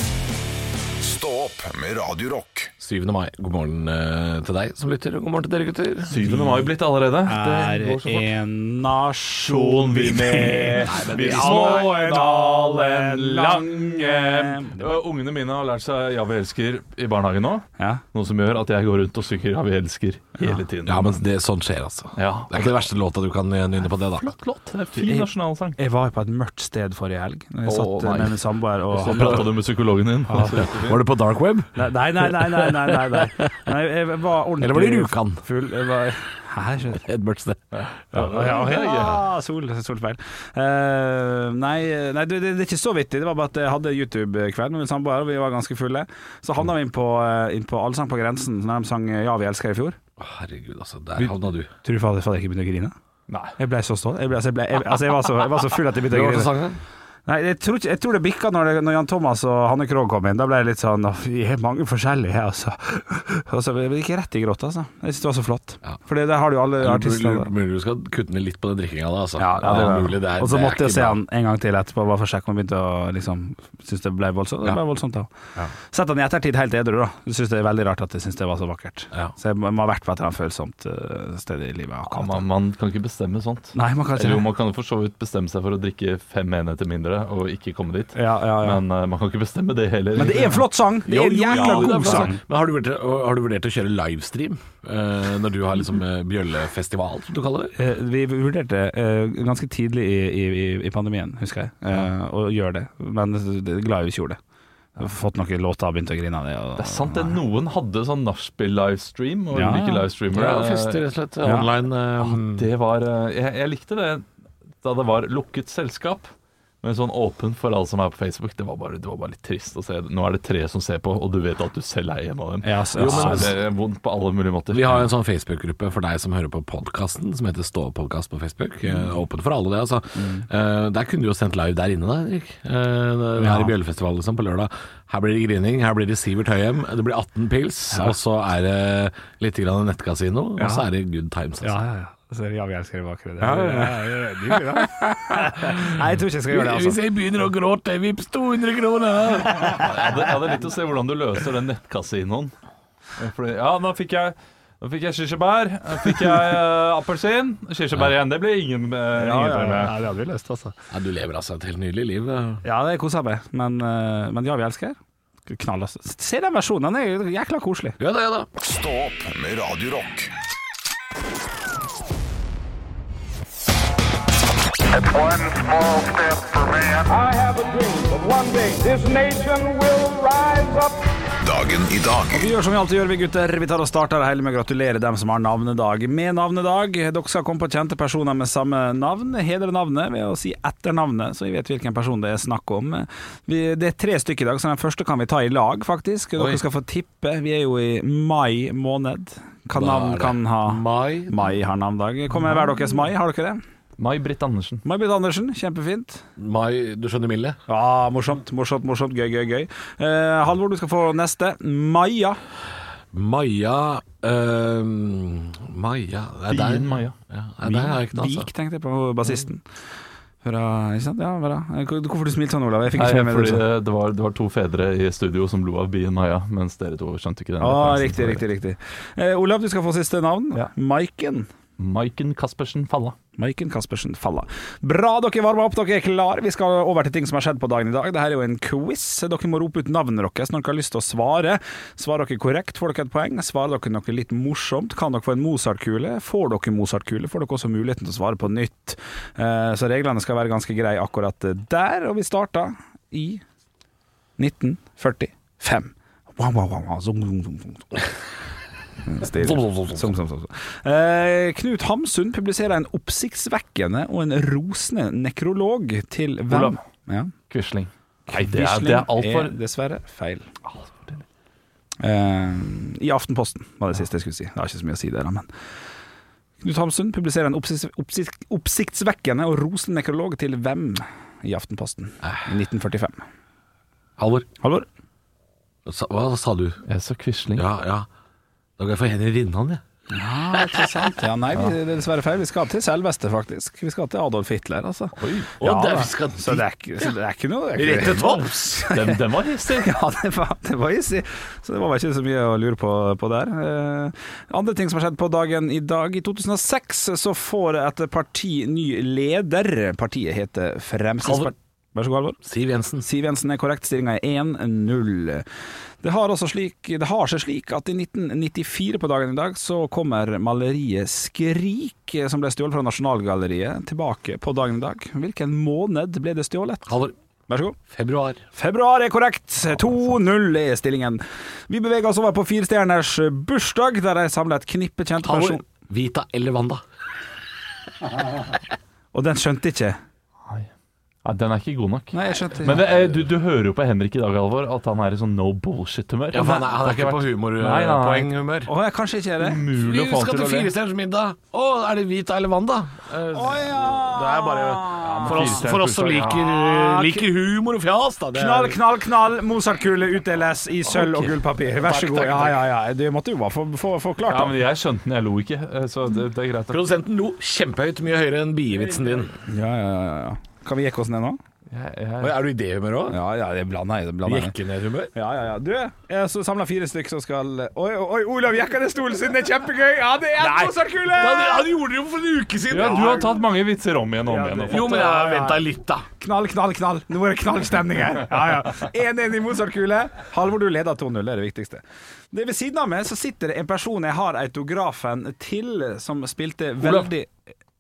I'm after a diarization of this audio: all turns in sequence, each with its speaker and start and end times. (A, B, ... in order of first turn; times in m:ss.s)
0:01.0-0:02.7 A
0:02.8-0:06.5 B
0:06.1-0:08.3 C
0:07.3-0:14.9 D
0:09.5-0:21.2 C
0:10.9-0:11.9 B
0:17.8-0:18.0 D
0:20.9-0:24.3 B
0:22.2-0:22.8 C
0:24.2-0:25.8 C
0:25.0-0:29.5 D
0:27.7-0:28.4 C
0:28.9-0:31.0 C
0:29.2-0:29.4 B
0:30.3-0:30.7 D
0:30.7-0:33.2 B
0:31.8-0:37.0 D
0:34.6-0:35.4 B
0:37.0-0:38.6 B
0:37.7-0:39.2 C
0:38.1-0:50.0 D
0:50.2-0:51.7 B
0:51.2-0:53.0 D
0:53.3-0:53.6 C
0:53.6-0:56.5 D
0:56.1-0:56.8 B
0:57.3-1:07.5 D
1:06.8-1:11.2 B
1:09.4-1:15.3 D
1:09.6-1:10.0 C
1:15.9-1:22.4 D
1:22.1-1:30.7 C
1:23.8-1:24.5 D
1:28.2-1:28.8 D
1:30.2-1:32.4 D
1:31.1-1:37.7 B
1:31.5-1:32.3 C
1:37.8-1:44.4 D
1:45.0-1:47.4 D
1:46.8-1:51.0 C
1:49.5-1:50.1 D
1:50.3-1:52.7 B
1:51.4-1:51.7 D
1:52.2-1:54.2 C
1:54.8-1:56.3 C
1:56.8-2:05.1 C
2:02.6-2:03.5 D
2:03.0-2:03.6 B
2:04.7-2:21.8 B
2:10.2-2:10.4 D
2:13.4-2:13.7 D
2:20.6-2:20.8 D
2:21.6-2:27.0 D
2:23.4-2:30.1 B
2:29.6-2:32.5 C
2:33.2-2:39.9 C
2:39.2-2:40.8 D
2:40.9-2:42.6 B
2:42.6-2:45.0 D
2:45.5-2:48.0 D
2:48.0-2:48.5 B
2:48.6-2:50.3 A
2:57.1-3:00.7 E
2:58.7-2:59.7 D
3:01.4-3:02.4 A
3:02.3-3:23.6 D
3:19.7-3:21.4 B
3:24.0-3:24.8 C
3:24.8-3:26.2 D
3:26.4-3:27.6 B
3:27.7-3:32.4 D
3:33.1-3:38.5 B
3:36.5-3:37.2 C
3:37.6-3:39.6 D
3:40.4-3:43.7 D
3:42.9-3:48.4 C
3:47.6-3:51.5 D
3:51.8-3:53.2 C
3:53.4-4:13.4 D
4:14.4-4:17.9 D
4:19.0-4:27.3 D
4:19.4-4:20.1 B
4:26.5-4:26.8 C
4:27.5-4:29.5 C
4:28.3-4:30.5 D
4:30.7-4:31.2 C
4:32.0-4:35.5 D
4:36.6-4:43.2 D
4:44.2-4:44.5 B
4:44.6-4:44.9 D
4:45.9-4:46.8 B
4:46.9-4:47.6 C
4:47.6-4:48.1 B
4:48.8-4:49.8 B
4:50.1-5:12.4 D
4:55.2-4:55.5 C
4:55.6-4:57.1 B
4:57.8-4:58.9 B
4:58.9-4:59.9 C
5:11.2-5:11.5 B
5:12.4-5:13.1 B
5:13.0-5:15.4 D
5:16.0-5:26.9 D
5:26.9-5:27.1 B
5:27.5-5:27.8 D
5:27.9-5:28.4 B
5:28.5-5:35.6 D
5:35.2-5:36.8 B
5:39.1-5:40.0 D
5:41.2-5:48.3 C
5:42.1-5:42.8 D
5:46.3-5:48.7 B
5:48.7-5:49.6 D
5:49.4-5:50.7 C
5:49.7-5:58.8 B
5:53.3-5:57.3 D
5:55.0-5:56.4 C
5:58.3-6:04.6 D
6:00.9-6:01.3 C
6:01.8-6:02.6 B
6:04.3-6:06.9 C
6:06.7-6:09.4 B
6:09.5-6:11.4 D
6:11.7-6:12.5 C
6:12.2-6:13.2 B
6:13.1-6:14.6 D
6:14.2-6:15.1 B
6:15.1-6:21.7 D
6:20.4-6:23.3 B
6:22.7-6:25.0 C
6:22.8-6:23.3 D
6:24.3-6:25.6 D
6:24.7-6:26.1 B
6:26.2-6:37.3 D
6:36.8-6:37.1 C